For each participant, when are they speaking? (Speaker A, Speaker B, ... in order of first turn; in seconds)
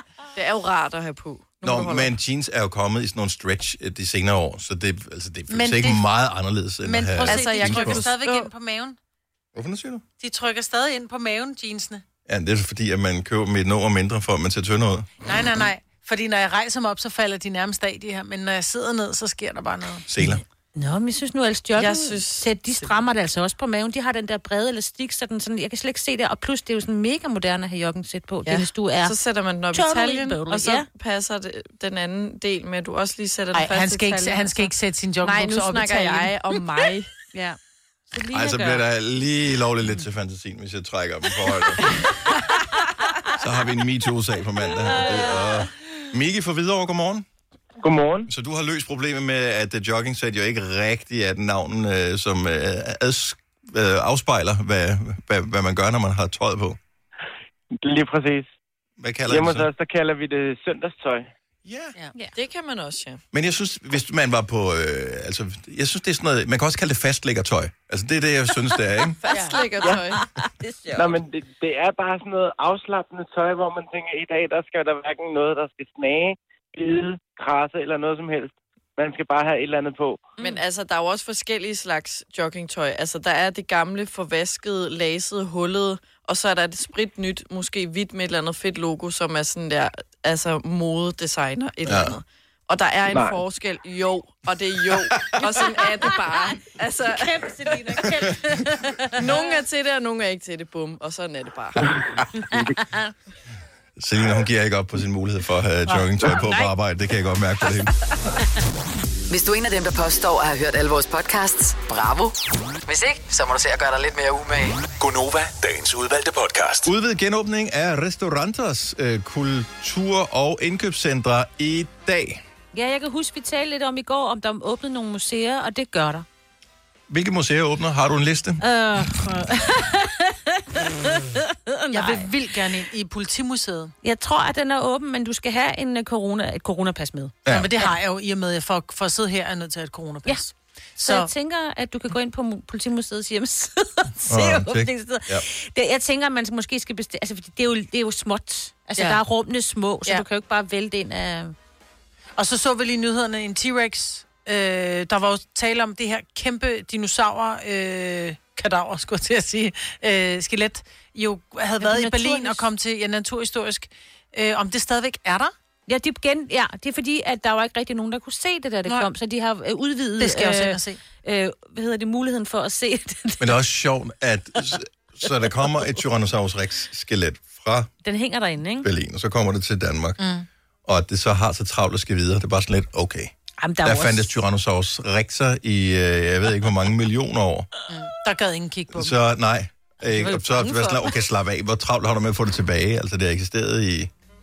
Speaker A: 0.3-2.1, 7.2-8.5, 21.8-22.5, 28.4-34.7, 35.2-37.1, 62.3-63.2, 69.2-70.2, 80.4-98.0, 99.1-101.9
Speaker B: 1.6-8.1, 9.5-10.0, 12.3-15.1, 20.1-20.4, 38.3-41.9, 43.4-47.2, 48.3-56.8, 59.0-59.7, 61.6-61.9, 63.3-69.2, 91.8-92.1, 104.0-107.9, 116.8-122.4, 127.1-129.0, 137.4-137.7, 144.3-145.4, 173.4-177.9, 178.8-180.2, 180.8-187.7, 188.9-194.1
Speaker C: 5.5-6.0, 6.8-9.0, 10.2-12.0, 15.2-20.0, 33.5-36.3, 69.3-69.9, 131.9-133.9, 137.5-141.3, 149.0-149.2, 152.4-165.5, 170.2-171.0, 180.2-180.5, 187.9-189.2
Speaker D: 20.2-29.1, 29.7-30.9, 37.3-37.6, 38.1-38.8, 44.8-45.5, 69.8-71.2, 97.1-99.5, 102.5-103.1, 122.7-126.2, 128.6-132.3, 134.0-137.9, 141.0-151.5, 161.8-162.7, 165.9-173.5, 178.0-178.9, 183.6-184.3, 190.1-191.1
Speaker E: 47.8-48.3, 57.8-58.5, 59.3-61.3, 70.9-80.3
Speaker F: 109.3-114.8
Speaker G: 115.0-116.9